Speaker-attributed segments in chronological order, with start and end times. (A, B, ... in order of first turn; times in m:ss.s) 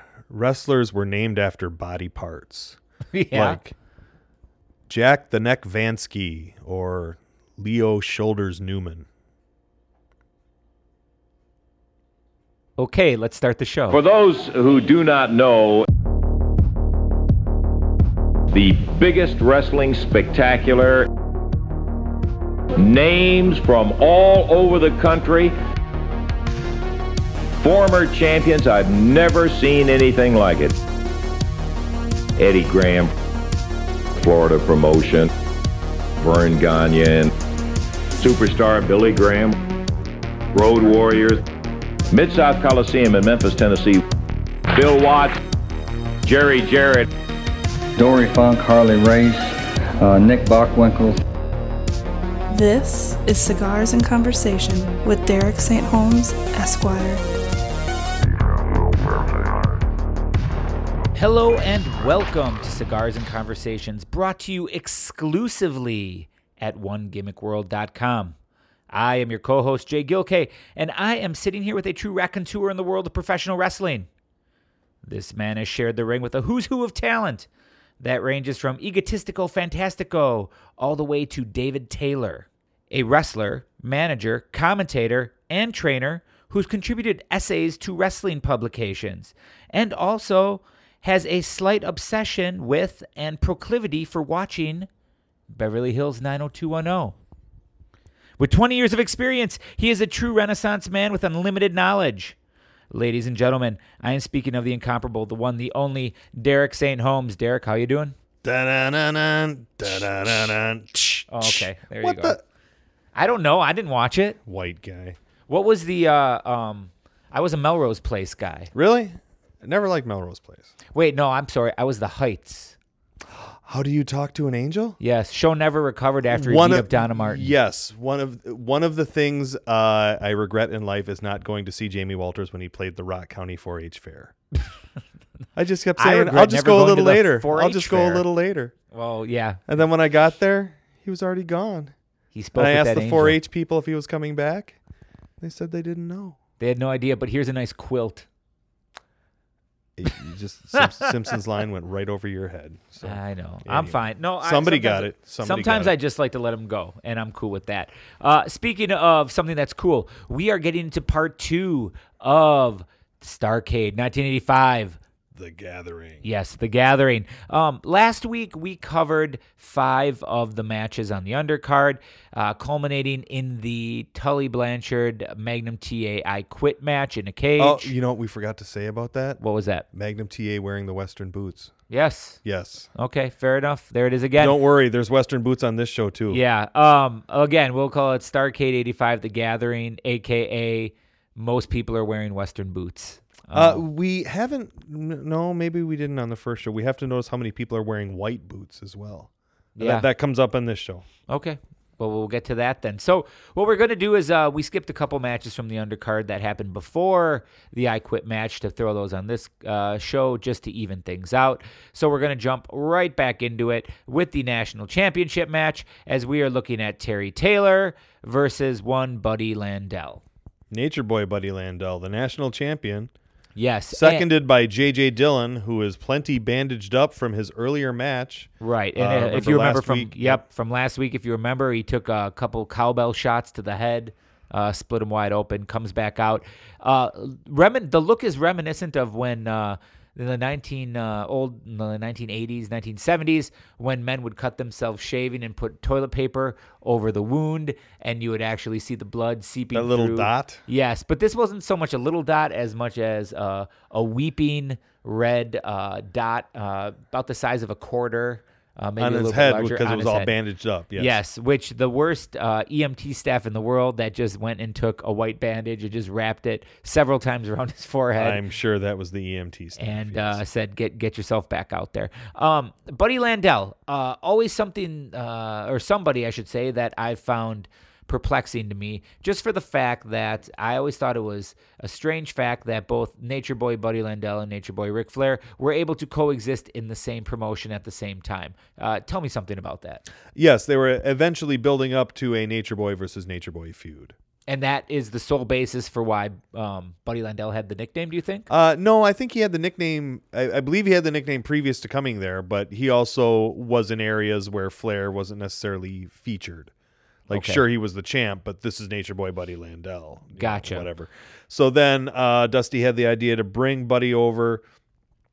0:00.3-0:02.8 A
0:03.1-0:03.6 B
0:03.3-0:03.7 A
0:04.9-0:09.1 A
0:12.8-0:14.0 B
0:13.9-0:15.9 C
0:18.5-0:21.1 C
0:22.8-0:25.6 C
0:27.6-0:30.8 C
0:32.4-0:33.1 C
0:34.2-0:35.3 C
0:36.2-0:37.3 C
0:38.2-0:39.6 C
0:40.5-0:41.4 C
0:42.1-0:44.0 C
0:44.7-0:45.4 C
0:46.2-0:47.1 C
0:48.0-0:51.2 D
0:52.5-0:57.2 E
1:01.2-1:08.4 B
1:08.9-1:14.1 B
1:15.0-1:17.5 B
1:18.0-1:34.9 B
1:35.5-1:37.2 B
1:38.4-1:42.4 B
1:42.9-1:48.2 B
1:48.4-1:52.4 A
1:51.3-1:52.4 B
1:53.2-1:54.4 B
1:54.5-1:55.2 A
1:55.5-1:58.7 B
1:58.7-2:00.7 A
2:00.9-2:02.8 B
2:03.7-2:05.0 A
2:05.0-2:07.5 B
2:06.3-2:14.3 A
2:15.6-2:18.7 A
2:16.0-2:18.2 B
2:18.9-2:19.7 B
2:19.7-2:21.9 A
2:22.3-2:23.4 B
2:22.6-2:24.8 A
2:25.4-2:26.4 A
2:26.6-2:28.3 B
2:30.0-2:35.9 A
2:33.0-2:45.0 B
2:45.4-2:46.3 A
2:46.2-2:57.9 B
2:57.6-2:59.4 A
2:59.4-2:59.9 B
2:59.9-3:01.7 A
3:01.9-3:02.4 B
3:02.4-3:02.9 A
3:03.0-3:04.6 B
3:04.4-3:06.4 A
3:06.3-3:13.8 B
3:13.5-3:21.0 A
3:19.8-3:20.1 B
3:21.3-3:40.2 B
3:40.7-3:43.1 A
3:43.6-3:44.3 B
3:43.9-3:50.4 A
3:48.6-4:20.3 B
4:09.7-4:10.6 A
4:19.0-4:21.2 A
4:21.0-4:28.4 B
4:28.2-4:30.4 A
4:29.8-4:50.0 B
4:50.4-4:54.1 A
4:54.5-4:58.5 B
4:58.5-5:06.7 A
5:07.3-5:14.6 A
5:07.3-5:07.6 B
5:10.4-5:10.9 B